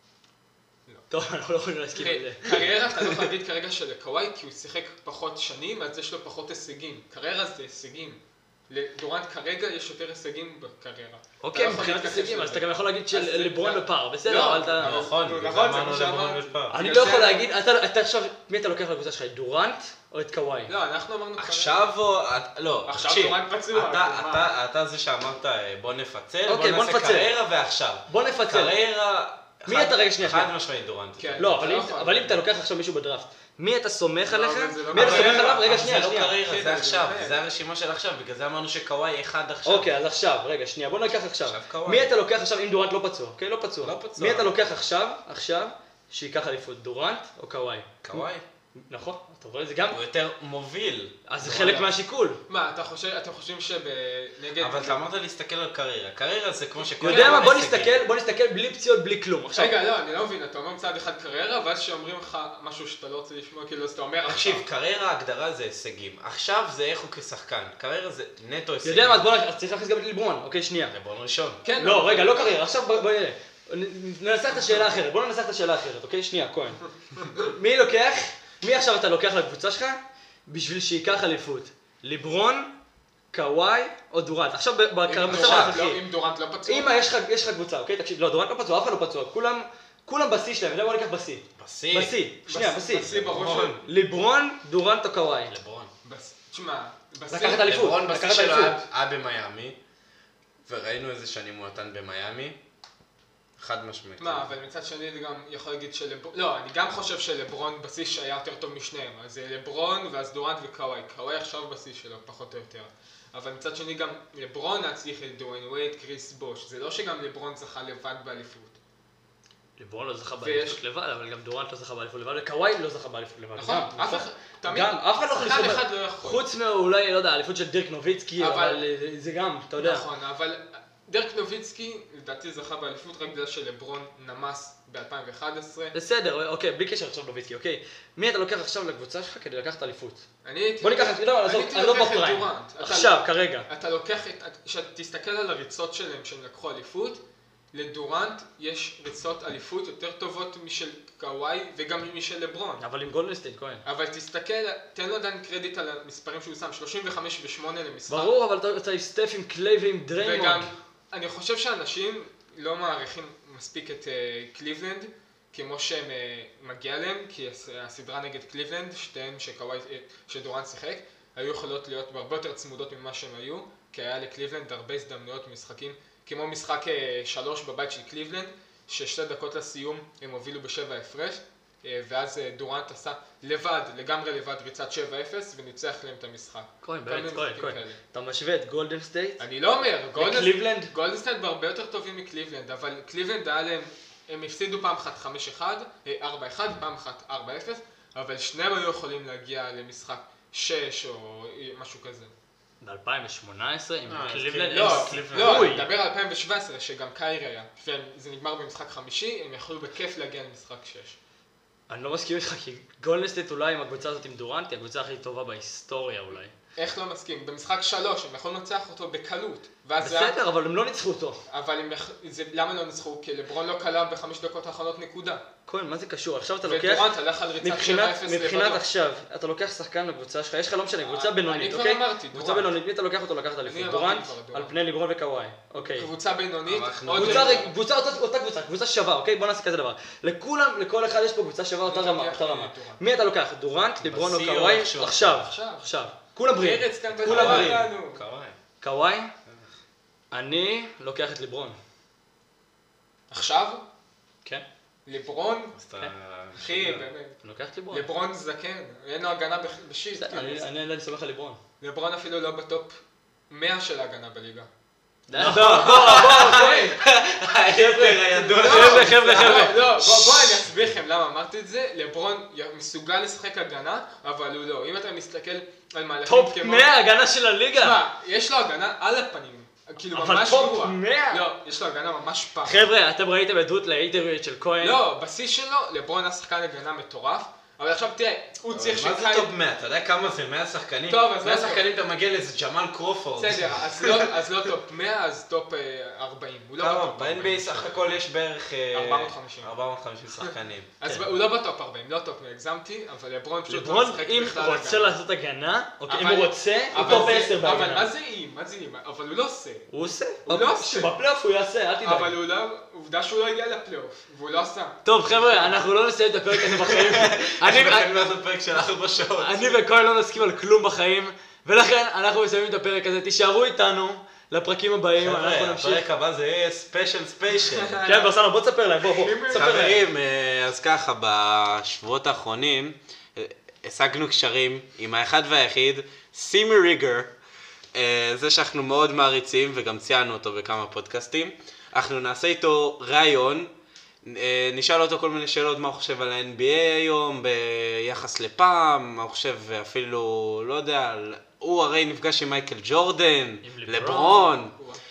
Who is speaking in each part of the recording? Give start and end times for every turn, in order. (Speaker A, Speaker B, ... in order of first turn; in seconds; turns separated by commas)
Speaker A: 1.1-2.6, Speaker B: 2.0-17.6, Speaker A: 11.4-15.0, Speaker C: 14.8-16.7, Speaker A: 16.7-20.7, Speaker B: 20.7-21.8, Speaker C: 21.4-31.5, Speaker B: 22.9-24.5, Speaker A: 26.5-27.3, Speaker A: 28.1-28.7, Speaker A: 29.7-30.5, Speaker B: 31.2-32.4, Speaker A: 31.4-36.4, Speaker B: 34.3-35.8, Speaker C: 34.9-39.9, Speaker B: 36.4-37.4, Speaker A: 39.6-48.3, Speaker C: 41.4-42.1, Speaker C: 43.8-44.5, Speaker C: 48.0-48.4, Speaker A: 48.9-50.0, Speaker C: 49.9-51.8, Speaker A: 51.3-52.4, Speaker B: 51.4-51.9, Speaker B: 52.5-55.0, Speaker C: 54.6-58.0, Speaker A: 57.0-59.7, Speaker B: 57.0-57.6, Speaker B: 59.5-64.6, Speaker C: 64.2-69.2, Speaker A: 68.8-70.9, Speaker C: 70.9-71.6, Speaker B: 71.6-72.6, Speaker A: 71.8-82.7, Speaker B: 74.5-74.9, Speaker A: 83.3-86.0, Speaker B: 85.0-87.0, Speaker C: 85.2-85.8, Speaker A: 86.7-93.1, Speaker C: 91.6-92.2, Speaker B: 92.5-93.8, Speaker C: 92.9-93.8, Speaker A: 93.8-95.5, Speaker C: 95.5-95.9, Speaker B: 96.0-97.8, Speaker A: 97.3-98.8, Speaker C: 97.6-99.8, Speaker C: 100.7-102.6, Speaker C: 103.6-104.5, Speaker B: 104.2-118.8, Speaker A: 119.8-130.1, Speaker B: 120.4-120.8, Speaker B: 123.6-126.4, Speaker B: 128.4-128.8, Speaker B: 129.8-135.9, Speaker A: 135.9-140.2, Speaker B: 140.4-152.8, Speaker A: 140.8-143.7, Speaker A: 152.8-153.8, Speaker B: 153.8-158.3, Speaker A: 158.1-160.7, Speaker B: 160.2-188.0, Speaker A: 186.8-189.4, Speaker B: 189.4-202.3, Speaker A: 190.2-190.9, Speaker A: 202.8-205.9, Speaker C: 204.1-205.7, Speaker B: 204.7-211.2, Speaker A: 211.9-216.5, Speaker B: 216.8-220.4, Speaker A: 220.0-221.4, Speaker B: 221.5-225.4, Speaker A: 225.7-227.1, Speaker B: 226.6-228.8, Speaker A: 227.6-236.1, Speaker B: 231.0-232.7, Speaker B: 233.7-234.8, Speaker B: 235.7-237.7, Speaker C: 236.6-237.6, Speaker A: 237.1-247.9, Speaker B: 241.9-243.0, Speaker C: 244.0-245.5, Speaker B: 245.4-245.9, Speaker B: 246.6-248.2, Speaker C: 247.1-248.6, Speaker A: 248.8-249.3, Speaker C: 249.4-249.7, Speaker A: 250.3-251.8, Speaker B: 253.3-253.8, Speaker B: 255.1-255.8, Speaker C: 255.8-257.1, Speaker B: 256.6-257.4, Speaker A: 257.4-258.1, Speaker B: 257.9-260.7, Speaker A: 260.2-261.6, Speaker B: 261.8-263.0, Speaker B: 263.5-264.7, Speaker A: 265.3-267.0, Speaker C: 265.3-270.6, Speaker B: 265.8-267.0, Speaker A: 267.6-270.1, Speaker B: 268.5-276.9, Speaker A: 276.2-278.0, Speaker B: 277.8-282.8, Speaker A: 280.1-281.4, Speaker A: 282.6-285.0, Speaker B: 284.8-289.5, Speaker C: 288.7-294.3, Speaker B: 291.1-291.9, Speaker B: 293.4-298.2, Speaker C: 296.8-300.9, Speaker B: 298.9-299.7, Speaker B: 300.3-305.2, Speaker A: 303.7-308.1, Speaker B: 306.1-309.9, Speaker A: 309.9-312.3, Speaker B: 310.4-311.1, Speaker B: 312.0-315.8, Speaker A: 315.0-318.1, Speaker C: 316.5-319.8, Speaker A: 319.4-326.0, Speaker C: 325.2-328.0, Speaker B: 327.7-328.3, Speaker A: 328.0-330.0, Speaker B: 329.0-329.9, Speaker C: 329.5-337.3, Speaker C: 337.9-343.7, Speaker C: 344.2-354.7, Speaker A: 353.6-354.5, Speaker B: 354.6-355.0